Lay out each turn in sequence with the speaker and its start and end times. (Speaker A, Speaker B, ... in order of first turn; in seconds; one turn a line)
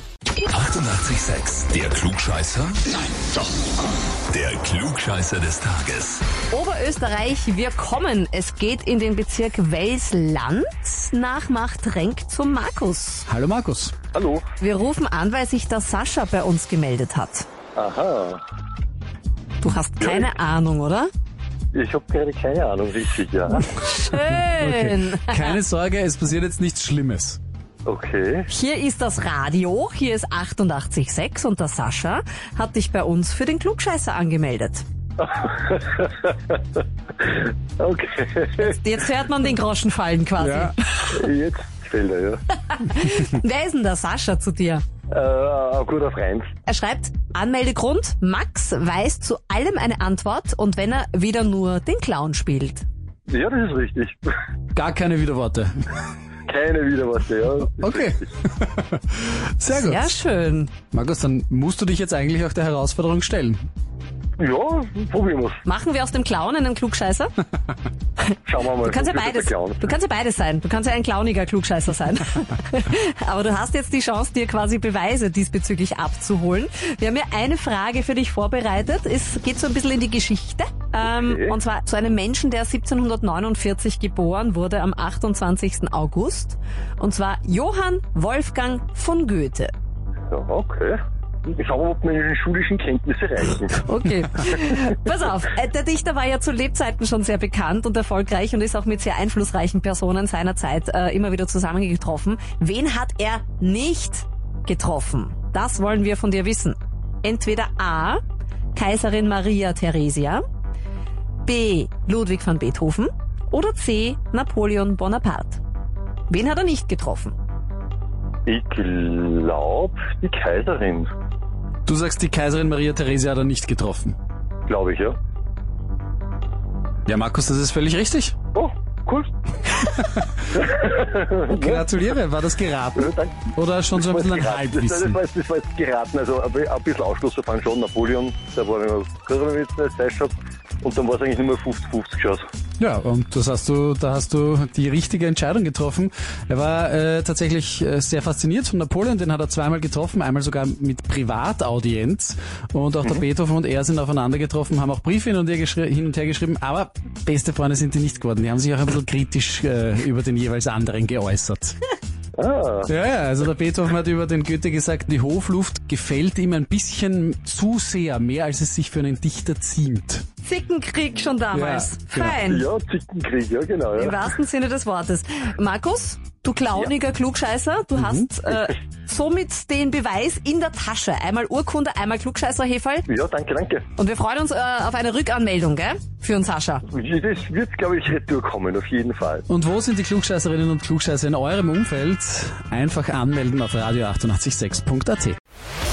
Speaker A: 0.5-3.2
Speaker A: 4.3-6.2
Speaker B: 6.5-13.2
Speaker C: 13.3-13.9
Speaker D: 14.1-14.4
Speaker B: 14.6-17.4
Speaker D: 17.8-18.4
Speaker B: 19.6-21.1
Speaker D: 20.0-20.3
Speaker D: 21.7-23.7
Speaker B: 23.7-25.6
Speaker C: 24.1-27.4
Speaker D: 27.9-28.5
Speaker B: 28.5-34.8
Speaker D: 35.2-38.7
Speaker B: 38.6-41.0
Speaker C: 40.4-40.7
Speaker D: 41.0-42.4
Speaker B: 42.7-44.8
Speaker D: 45.1-46.5
Speaker B: 46.6-52.8
Speaker D: 53.3-54.3
Speaker C: 54.7-55.8
Speaker D: 56.5-58.2
Speaker C: 57.8-60.1
Speaker B: 59.7-60.7
Speaker C: 60.9-63.6
Speaker D: 64.4-65.6
Speaker B: 65.6-67.3
Speaker B: 68.2-89.7
Speaker D: 68.5-69.8
Speaker D: 81.0-81.5
Speaker D: 90.3-93.8
Speaker B: 93.8-108.2
Speaker B: 108.7-110.4
Speaker B: 111.4-115.6
Speaker B: 116.3-117.3
Speaker D: 118.5-121.1
Speaker C: 121.8-124.2
Speaker D: 124.7-125.2
Speaker C: 127.0-128.3
Speaker D: 128.5-129.3
Speaker D: 130.5-131.9
Speaker C: 131.5-135.2
Speaker D: 133.0-133.4
Speaker D: 133.9-142.4
Speaker C: 142.8-161.8
Speaker D: 162.3-162.9
Speaker C: 162.9-170.2
Speaker B: 170.4-172.7
Speaker C: 171.5-172.4
Speaker D: 172.5-174.2
Speaker B: 173.9-183.1
Speaker C: 177.9-178.3
Speaker D: 183.1-183.9
Speaker B: 183.9-186.8
Speaker D: 186.9-189.4
Speaker C: 189.5-195.4